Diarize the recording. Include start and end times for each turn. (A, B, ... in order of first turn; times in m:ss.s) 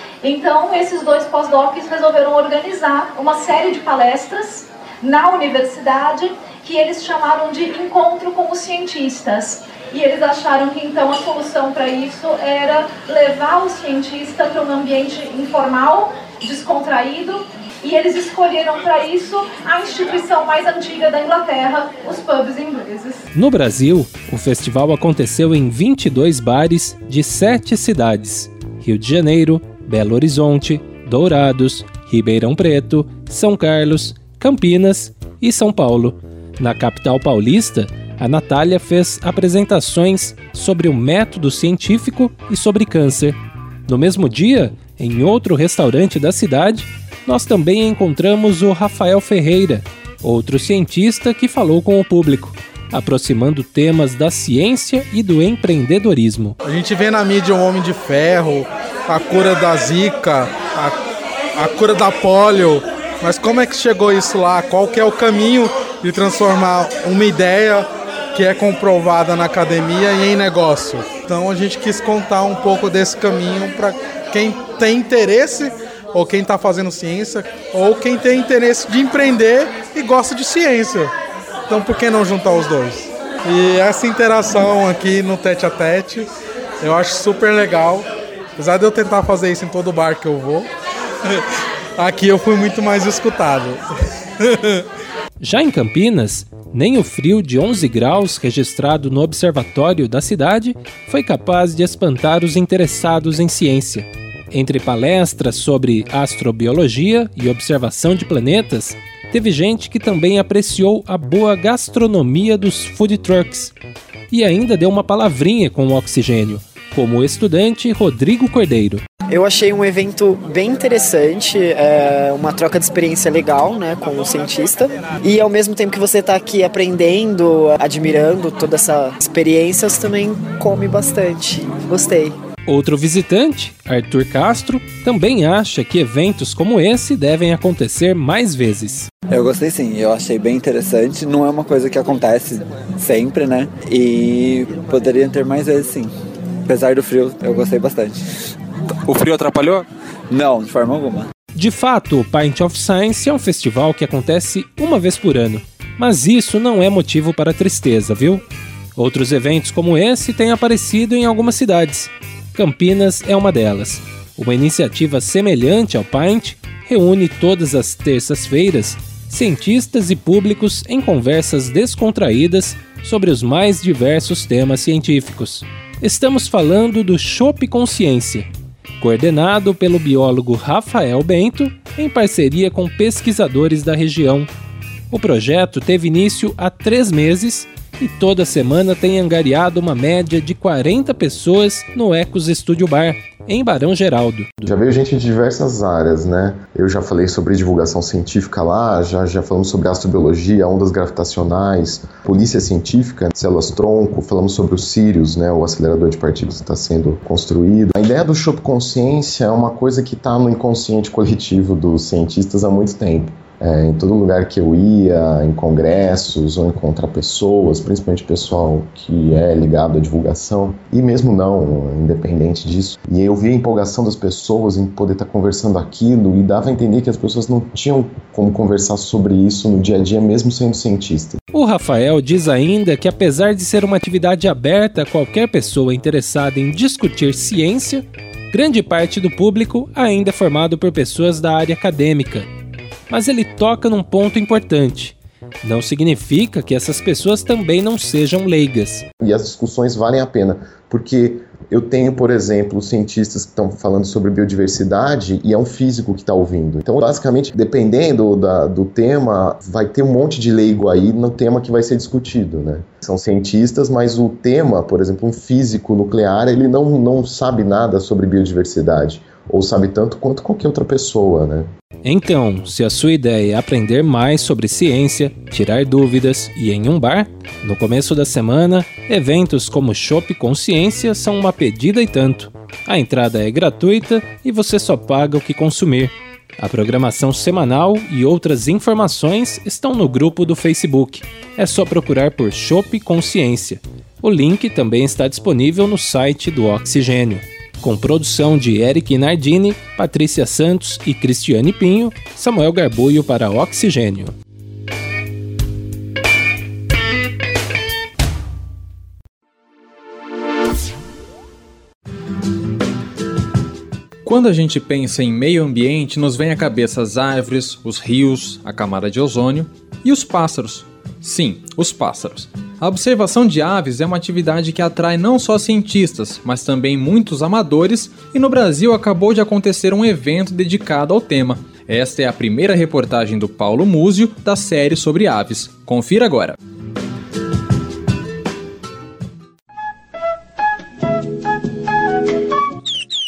0:00.2-0:23.2 A
0:23.3-0:56.6 B
0:56.6-1:01.0 C
1:01.6-1:21.1 C
1:21.7-1:26.3 C
1:26.8-1:30.7 C
1:32.0-1:33.8 C
1:34.4-1:34.8 C
1:35.4-1:53.7 B
1:54.3-1:59.0 B
1:59.3-2:12.4 D
2:12.6-2:19.1 B
2:19.3-2:26.1 E
2:26.7-2:28.1 E
2:30.3-2:31.2 E
2:31.6-2:38.4 B
2:39.0-2:58.5 B
2:59.0-3:04.5 B
3:05.1-3:14.7 B
3:14.6-3:51.4 F
3:51.5-4:02.5 B
4:03.1-4:09.0 B
4:09.2-4:31.7 F
4:32.0-5:04.3 B
5:14.2-5:36.6 G